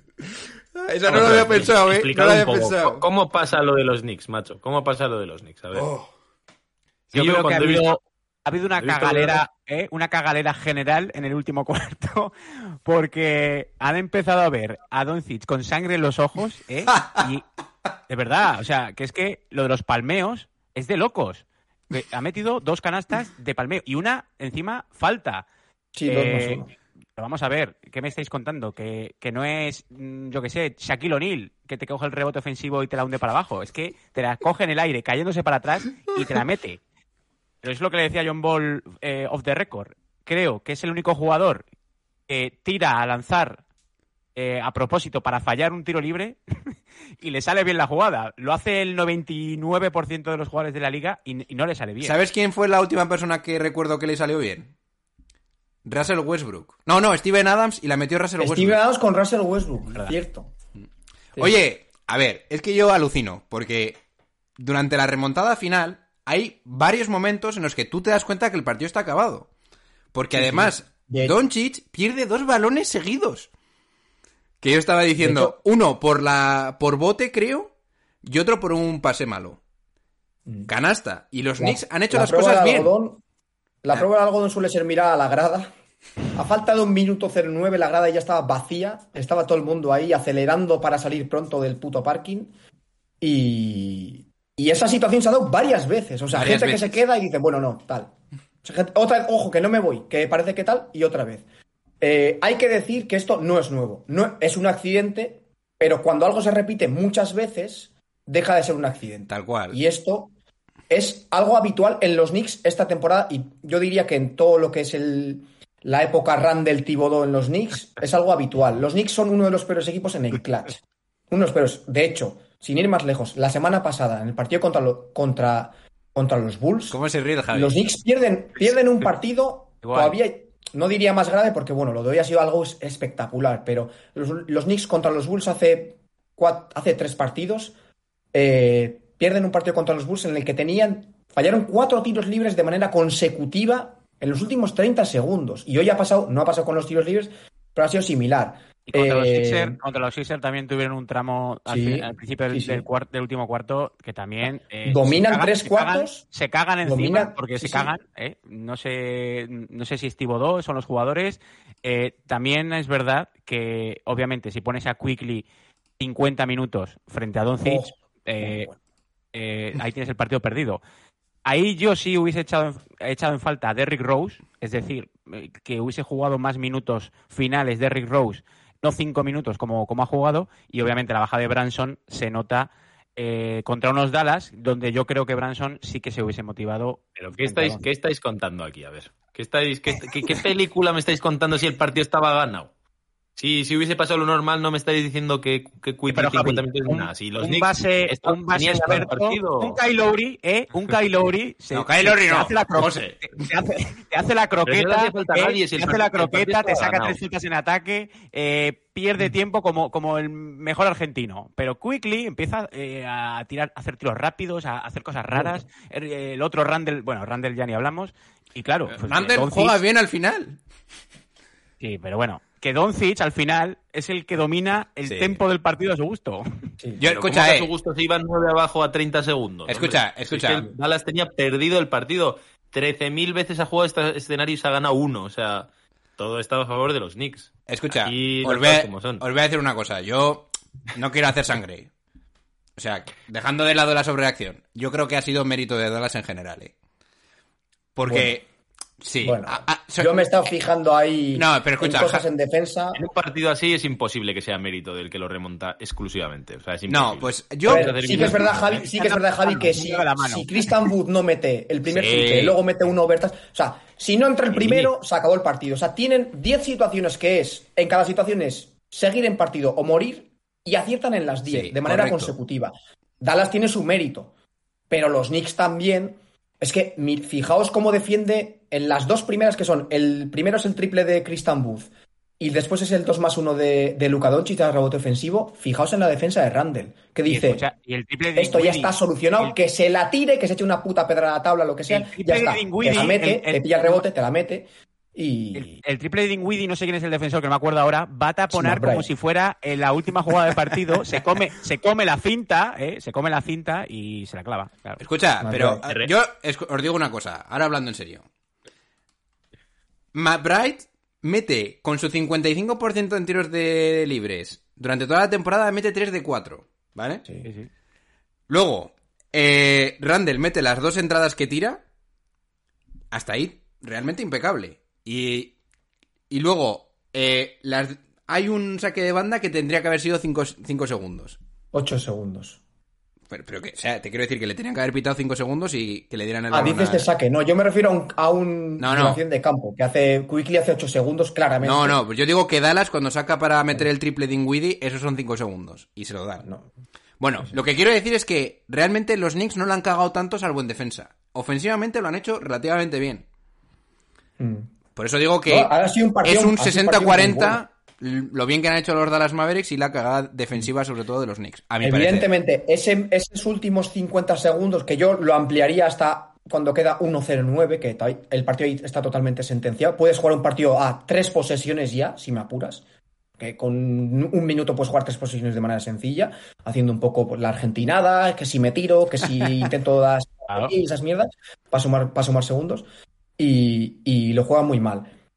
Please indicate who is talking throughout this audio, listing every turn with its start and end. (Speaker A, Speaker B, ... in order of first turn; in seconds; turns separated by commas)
Speaker A: 0.7-3.0, Speaker B: 1.1-5.8, Speaker A: 5.7-6.0, Speaker B: 7.1-8.0, Speaker C: 7.1-12.3, Speaker B: 8.8-9.4, Speaker C: 12.8-17.4, Speaker A: 16.9-17.2, Speaker C: 18.1-25.4, Speaker D: 25.9-26.7, Speaker C: 26.1-26.6, Speaker C: 27.1-36.8, Speaker C: 37.6-41.6, Speaker C: 42.3-43.6, Speaker C: 44.3-52.1, Speaker A: 52.0-54.7, Speaker A: 55.8-58.8, Speaker D: 58.4-60.5, Speaker A: 61.4-64.0, Speaker A: 64.6-69.5, Speaker A: 70.1-73.5, Speaker D: 70.3-71.3, Speaker A: 74.6-77.7, Speaker D: 75.2-75.5, Speaker A: 78.2-79.6, Speaker A: 80.7-82.9, Speaker D: 81.6-83.2, Speaker D: 83.8-85.7, Speaker D: 86.3-92.5, Speaker D: 93.2-98.1, Speaker A: 96.3-97.0, Speaker D: 98.6-101.4, Speaker D: 102.0-110.3, Speaker A: 109.3-109.8, Speaker D: 110.9-127.0, Speaker A: 126.9-127.8, Speaker D: 127.5-137.7, Speaker C: 129.8-130.2, Speaker D: 138.3-149.8, Speaker C: 148.9-165.4, Speaker D: 151.7-152.8, Speaker D: 154.8-156.2, Speaker D: 156.8-157.9, Speaker C: 166.0-168.7, Speaker D: 167.6-168.8, Speaker C: 169.3-170.8, Speaker C: 171.4-187.8, Speaker B: 187.2-192.7, Speaker B: 193.4-199.8, Speaker C: 196.1-219.8, Speaker A: 201.7-203.2, Speaker B: 202.9-203.1, Speaker B: 204.7-207.2, Speaker A: 218.9-220.6, Speaker C: 221.8-226.4, Speaker A: 225.0-225.4, Speaker A: 227.0-227.7, Speaker B: 227.0-239.2, Speaker A: 229.7-230.7, Speaker A: 237.7-241.9, Speaker A: 242.8-246.7, Speaker A: 247.9-248.4, Speaker D: 248.1-248.4, Speaker A: 249.0-250.3, Speaker D: 249.2-253.0, Speaker A: 251.3-252.2, Speaker B: 252.9-258.8, Speaker A: 256.9-258.4, Speaker D: 257.7-274.3, Speaker C: 258.7-260.5, Speaker A: 261.9-262.4, Speaker B: 261.9-262.5, Speaker B: 264.5-264.9, Speaker A: 271.4-272.3, Speaker D: 274.9-281.9, Speaker D: 282.4-287.6, Speaker C: 287.3-289.6, Speaker D: 288.4-295.7, Speaker C: 291.9-294.1, Speaker C: 295.5-305.0, Speaker D: 298.5-299.1, Speaker A: 305.0-308.2, Speaker D: 305.4-305.8, Speaker B: 305.8-306.1, Speaker A: 310.1-317.2, Speaker C: 317.4-317.7, Speaker A: 318.5-321.8, Speaker A: 323.1-325.5, Speaker A: 326.3-331.4, Speaker D: 331.7-332.6, Speaker A: 333.3-337.1, Speaker D: 336.5-341.9, Speaker A: 338.8-339.2, Speaker A: 341.6-346.5, Speaker D: 346.4-346.7, Speaker A: 347.2-353.2, Speaker D: 354.4-354.7, Speaker A: 354.9-362.3, Speaker D: 355.5-357.6, Speaker D: 361.8-372.8, Speaker D: 373.4-382.9, Speaker D: 383.4-385.1